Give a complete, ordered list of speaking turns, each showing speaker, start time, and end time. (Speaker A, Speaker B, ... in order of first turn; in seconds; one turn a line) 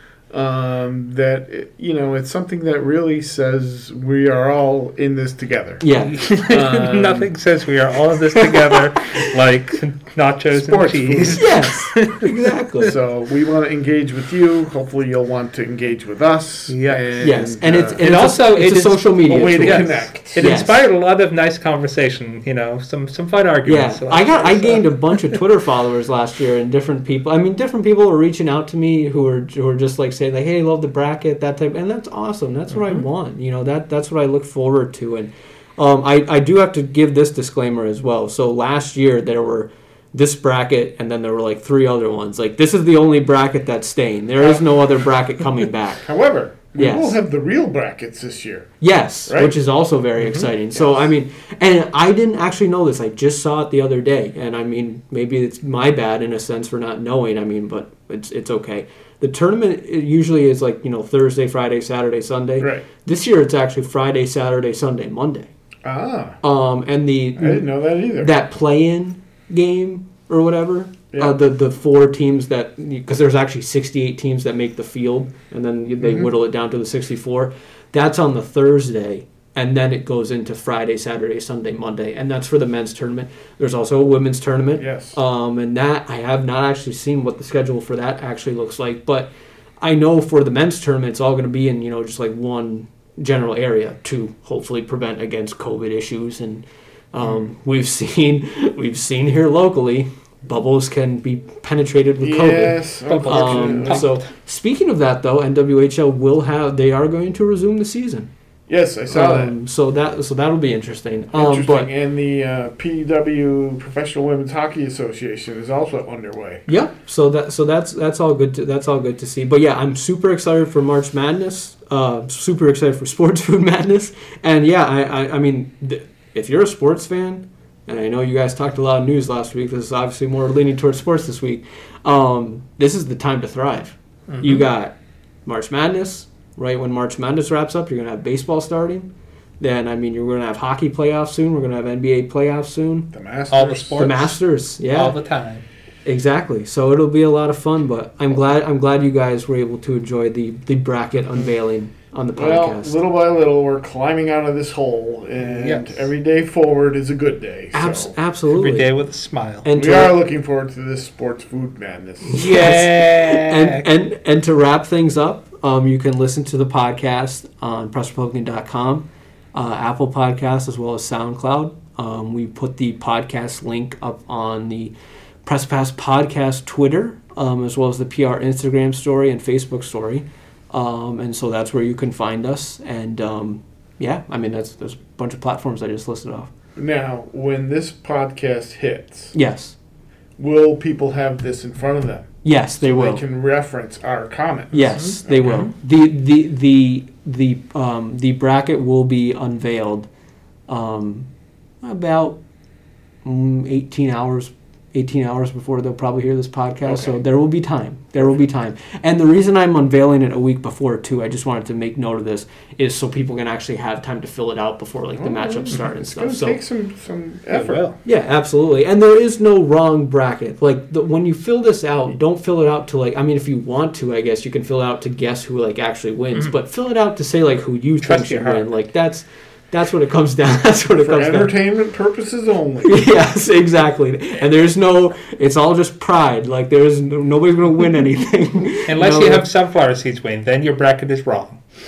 Speaker A: 0.3-5.8
Speaker B: 5.8-6.2
Speaker C: 6.1-12.5
Speaker A: 6.5-7.3
Speaker A: 10.5-11.5
Speaker B: 11.4-13.0
Speaker A: 12.8-18.0
Speaker C: 16.7-17.2
Speaker B: 17.2-20.8
Speaker C: 18.0-25.2
Speaker A: 19.2-20.5
Speaker B: 23.6-46.1
Speaker C: 32.7-33.0
Speaker A: 46.0-48.7
Speaker B: 46.8-47.2
Speaker B: 48.8-65.5
Speaker A: 49.3-49.6
Speaker C: 50.2-50.5
Speaker A: 50.8-51.1
Speaker A: 62.6-62.9
Speaker A: 65.8-66.4
Speaker B: 66.4-108.3
Speaker A: 67.4-68.3
Speaker A: 76.0-76.3
Speaker A: 84.8-85.2
Speaker A: 102.2-104.1
Speaker C: 103.1-104.2
Speaker A: 108.7-109.5
Speaker B: 109.1-111.9
Speaker A: 111.3-116.7
Speaker B: 116.7-139.1
Speaker C: 134.3-134.6
Speaker B: 139.6-143.1
Speaker A: 143.1-144.2
Speaker C: 143.5-145.7
Speaker B: 144.0-145.2
Speaker B: 146.1-153.0
Speaker A: 152.4-158.2
Speaker C: 155.6-156.1
Speaker B: 157.7-158.9
Speaker C: 158.5-159.7
Speaker B: 159.6-160.2
Speaker A: 159.7-162.4
Speaker B: 162.3-174.9
Speaker C: 162.3-163.9
Speaker B: 175.4-186.5
Speaker A: 186.8-189.3
Speaker B: 189.3-189.8
Speaker A: 190.4-195.7
Speaker B: 192.4-193.2
Speaker B: 194.7-200.1
Speaker B: 200.7-201.3
Speaker B: 201.8-202.4
Speaker B: 203.2-216.6
Speaker A: 206.8-207.2
Speaker A: 215.2-217.9
Speaker C: 217.5-218.0
Speaker B: 218.0-231.6
Speaker C: 228.0-228.8
Speaker A: 231.0-233.1
Speaker B: 232.8-239.4
Speaker C: 238.9-241.6